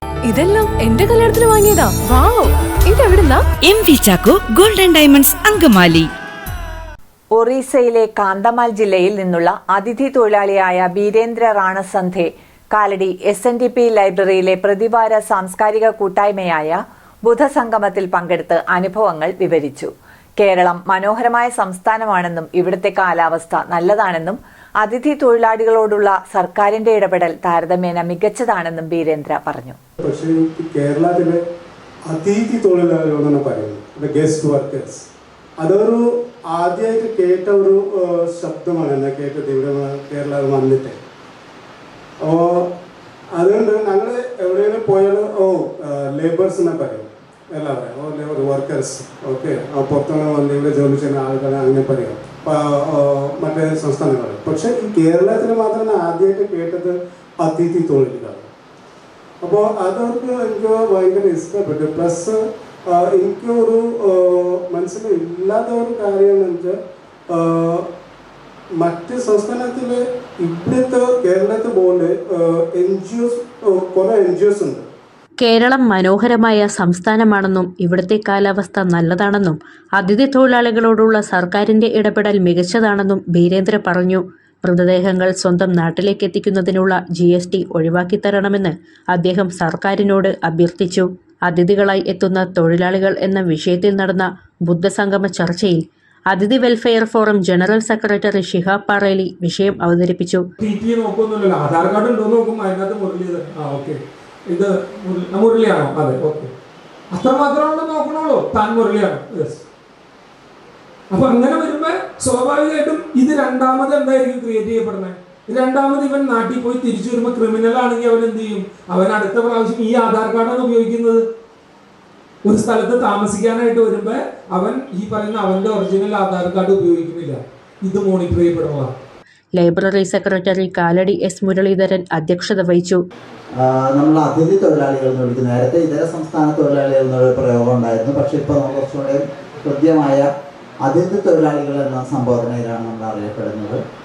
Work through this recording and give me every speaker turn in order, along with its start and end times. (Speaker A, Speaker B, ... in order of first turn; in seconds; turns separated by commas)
Speaker A: 0.2-3.4, Speaker B: 3.6-6.1, Speaker C: 7.4-12.2, Speaker C: 12.8-16.6, Speaker C: 17.4-19.8, Speaker C: 20.5-24.3, Speaker C: 25.0-29.6, Speaker D: 30.0-31.4, Speaker D: 32.1-35.1, Speaker D: 35.6-41.0, Speaker D: 42.2-42.7, Speaker D: 43.4-58.5, Speaker D: 59.4-67.9, Speaker D: 68.8-74.9, Speaker E: 75.4-100.5, Speaker F: 100.6-106.5, Speaker F: 107.1-109.6, Speaker F: 111.1-121.3, Speaker F: 122.4-128.9, Speaker E: 129.6-133.0, Speaker G: 133.5-140.3, Speaker G: 140.8-143.8